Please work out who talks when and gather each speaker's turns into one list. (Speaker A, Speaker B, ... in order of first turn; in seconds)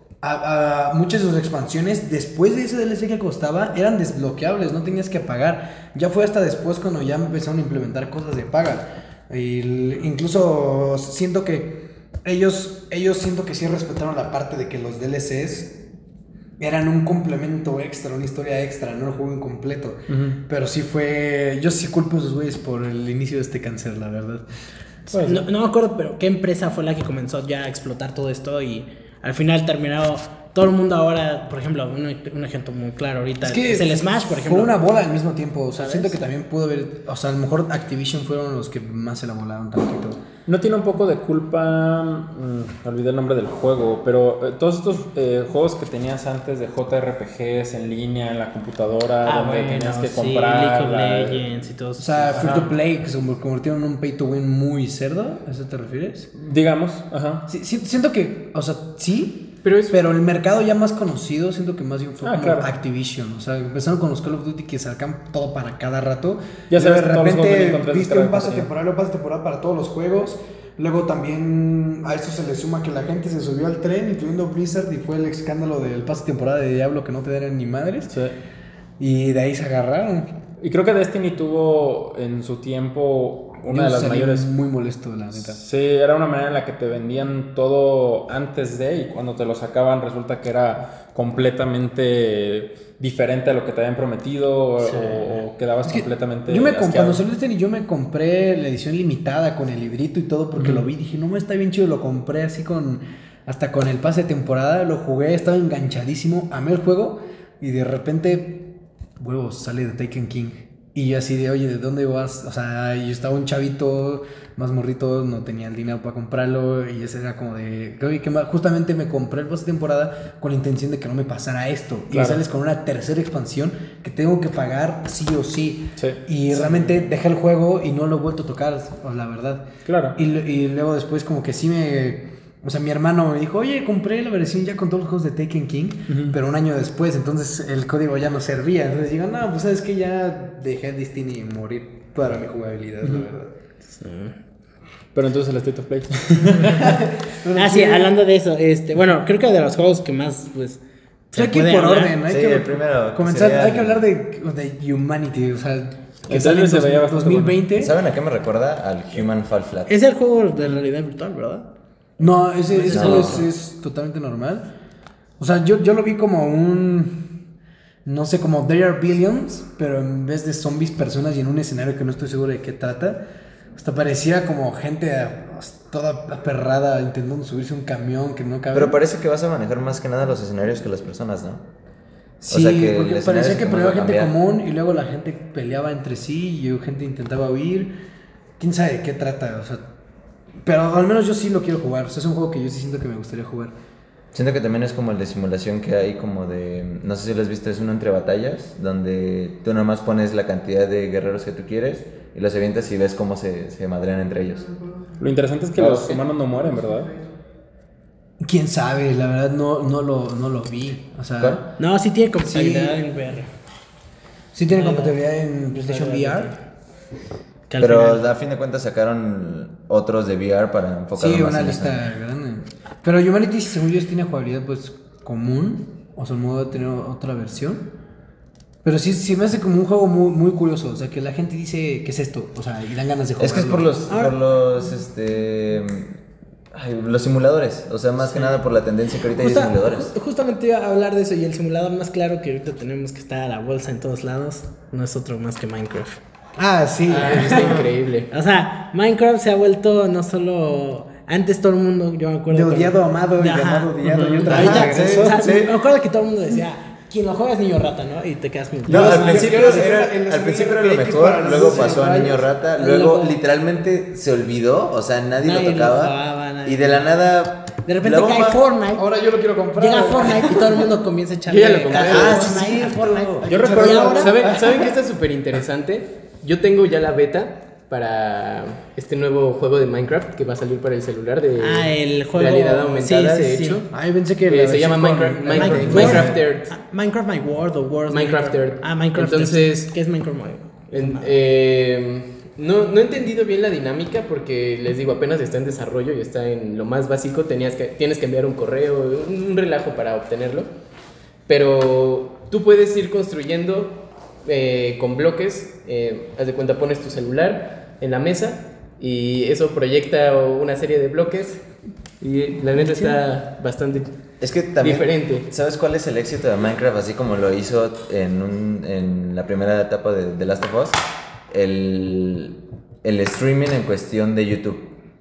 Speaker A: 0.2-15.8, 16.6-24.4, 33.4-40.2, 52.0-56.3, 57.5-78.1, 79.0-80.3, 83.7-85.6, 95.8-143.5, 146.6-148.1, 151.3-157.9, 162.2-164.6, 165.4-167.4, 168.0-173.2, 173.8-179.0, 182.4-187.9, 188.6-189.8, 190.6-193.7, 208.4-211.6, 212.5-212.9, 214.5-216.5, 221.2-227.8, 228.8-233.9, 246.6-247.9, 252.5-255.6, 258.9-262.5, 268.9-270.9, 271.9-274.9, 283.9-286.3
Speaker B: 20.1-20.4, 25.1-25.4, 40.5-51.5, 56.4-57.4, 62.2-62.7, 66.7-68.7, 78.1-78.3, 80.6-84.5, 85.3-97.2, 100.5-100.9, 122.1-122.4, 126.0-126.9, 129.8-130.2, 136.1-136.3, 145.1-146.9, 156.3-157.7, 205.2-207.1, 254.0-254.6, 273.5-274.2, 285.5-286.4
Speaker C: 25.1-34.8, 35.8-36.1, 49.2-52.7, 143.9-144.3, 147.5-150.8, 151.3-152.2, 159.9-161.7, 162.7-163.4, 211.8-213.5, 214.7-215.2, 215.7-216.5, 217.7-218.2, 234.1-234.3, 239.3-246.2, 247.3-247.7, 248.3-253.9, 254.4-259.9, 262.7-263.4, 265.4-267.1, 267.9-269.0, 269.8-274.5, 281.6-283.8, 285.5-291.3
Speaker D: 59.6-59.9, 247.1-248.3, 271.5-272.5, 274.1-283.9, 284.4-286.7, 288.1-289.9, 290.9-300.7, 301.5-311.6, 312.2-314.2, 314.8-315.5
Speaker E: 152.2-154.0, 157.8-159.9, 162.9-163.4, 178.7-181.6, 182.5-184.3, 194.3-204.7, 205.8-206.2, 217.8-222.0, 233.4-236.2, 236.7-240.1, 254.3-255.7, 258.9-268.6, 271.9-273.5, 314.4-324.9